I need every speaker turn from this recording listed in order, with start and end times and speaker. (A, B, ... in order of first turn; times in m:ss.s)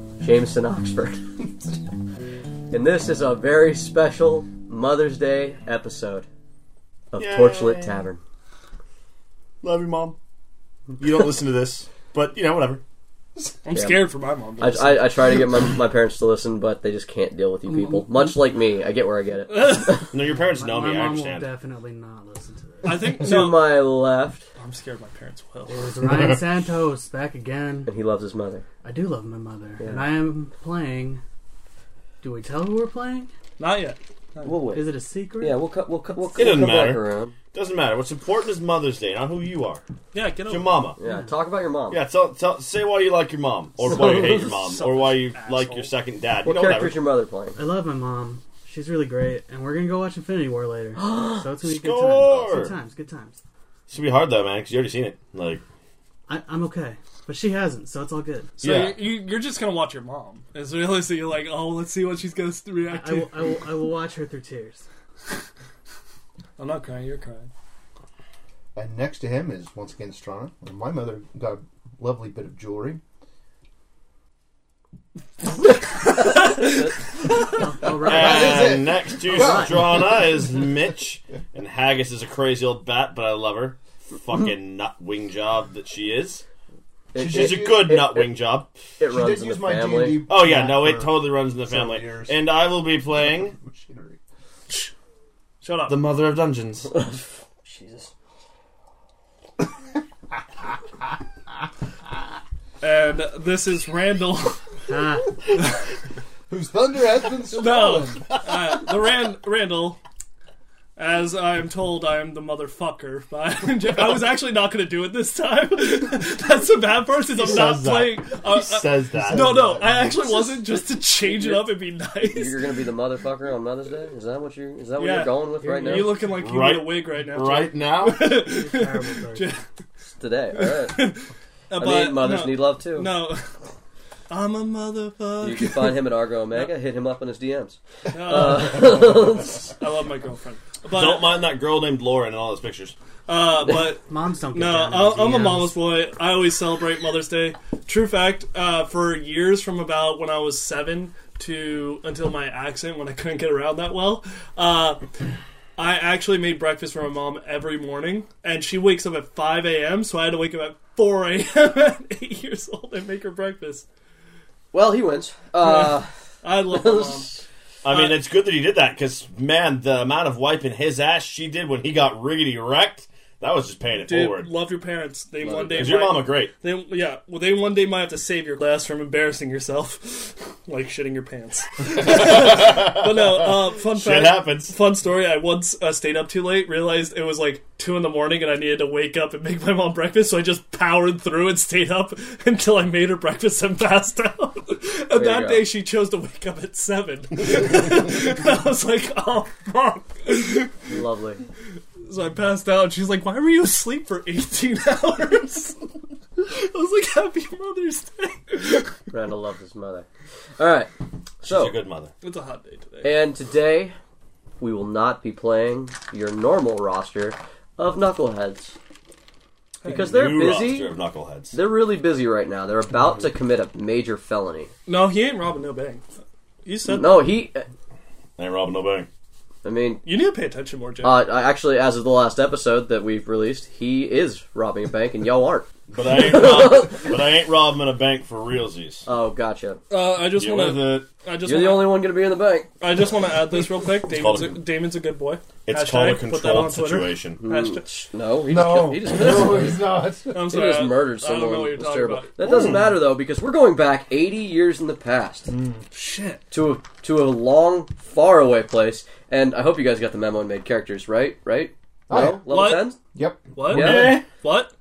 0:00.2-0:01.3 A
0:02.7-0:06.3 A
0:07.1-0:08.2 A
0:07.2-0:08.0 B
0:09.6-0:10.2 B
0:11.0-0:12.8 B
0:13.6-0:15.2 C
0:13.7-0:20.1 A
0:17.7-0:18.0 D
0:19.5-0:20.0 C
0:20.1-0:21.5 B
0:20.5-0:23.2 D
0:22.8-0:23.8 C
0:23.2-0:24.5 A
0:24.6-0:25.8 C
0:25.7-0:27.9 D
0:27.8-0:28.6 A
0:28.8-0:31.2 D
0:29.8-0:30.1 A
0:32.2-0:33.3 D
0:33.6-0:34.6 C
0:34.4-0:34.9 A
0:34.7-0:35.6 D
0:35.4-0:37.4 A
0:36.4-0:39.8 B
0:40.1-0:40.8 C
0:40.5-0:41.0 B
0:41.0-0:42.0 A
0:41.0-0:41.3 D
0:41.9-0:47.0 B
0:43.9-0:45.9 C
0:43.9-0:44.5 A
0:46.4-0:47.6 A
0:47.6-0:53.4 D
0:51.0-0:51.5 A
0:51.6-0:52.8 B
0:53.9-0:55.6 B
0:56.3-0:58.6 D
0:58.6-0:59.0 B
0:58.6-1:03.6 C
1:02.9-1:04.8 D
1:06.6-1:07.5 C
1:08.8-1:13.0 E
1:16.1-1:17.0 A
1:16.2-1:16.7 C
1:17.4-1:18.8 D
1:17.8-1:26.4 B
1:18.0-1:20.2 E
1:19.3-1:19.7 D
1:27.1-1:28.3 A
1:27.2-1:28.7 B
1:27.2-1:27.9 E
1:29.0-1:30.2 A
1:29.1-1:32.5 E
1:30.3-1:33.6 B
1:33.1-1:34.2 E
1:35.6-1:36.0 C
1:35.9-1:36.9 B
1:36.9-1:38.1 A
1:42.8-1:44.7 C
1:44.9-1:45.4 D
1:46.5-1:48.9 E
1:47.4-1:50.0 C
1:51.0-2:02.7 C
1:57.4-1:59.8 B
1:59.1-2:00.6 E
2:01.2-2:06.2 A
2:05.0-2:09.6 C
2:05.7-2:06.0 D
2:06.3-2:08.2 B
2:08.2-2:09.5 D
2:10.2-2:11.0 A
2:10.6-2:13.5 C
2:11.8-2:13.1 A
2:14.3-2:16.0 C
2:15.4-2:19.7 A
2:18.1-2:21.4 C
2:20.9-2:23.0 B
2:23.3-2:35.0 C
2:24.1-2:25.8 D
2:35.8-2:43.8 C
2:44.7-2:46.1 A
2:45.6-2:47.3 C
2:46.7-2:47.4 A
2:47.8-2:54.5 B
2:47.9-2:48.2 C
2:54.1-3:20.7 C
2:55.4-2:56.1 A
2:55.8-2:56.5 B
3:02.0-3:04.8 B
3:15.1-3:15.7 A
3:20.9-3:21.4 A
3:22.0-3:25.8 C
3:26.4-3:29.0 C
3:29.1-3:30.1 A
3:30.6-3:31.8 A
3:31.4-3:32.1 B
3:32.2-3:33.2 C
3:33.0-3:34.0 A
3:34.6-3:38.8 A
3:39.8-3:40.5 C
3:39.8-3:40.9 A
3:39.9-3:41.6 B
3:41.5-3:44.7 A
3:44.9-3:46.1 C
3:46.6-3:47.3 C
3:46.9-3:47.7 A
3:48.4-3:49.1 B
3:49.6-3:50.0 A
3:50.0-3:51.2 C
3:51.0-3:57.1 A
3:55.9-3:59.1 B
3:59.0-3:59.8 A
3:59.9-4:02.0 C
4:00.2-4:01.1 B
4:01.4-4:02.7 A
4:02.8-4:07.8 C
4:04.1-4:04.6 B
4:05.7-4:07.4 B
4:07.4-4:15.5 A
4:08.5-4:10.4 E
4:10.3-4:12.3 C
4:12.4-4:13.0 B
4:15.5-4:15.8 E
4:15.9-4:16.4 C
4:16.5-4:23.0 A
4:22.1-4:22.5 E
4:22.5-4:22.9 C
4:23.1-4:24.2 E
4:23.6-4:24.7 C
4:23.7-4:24.2 A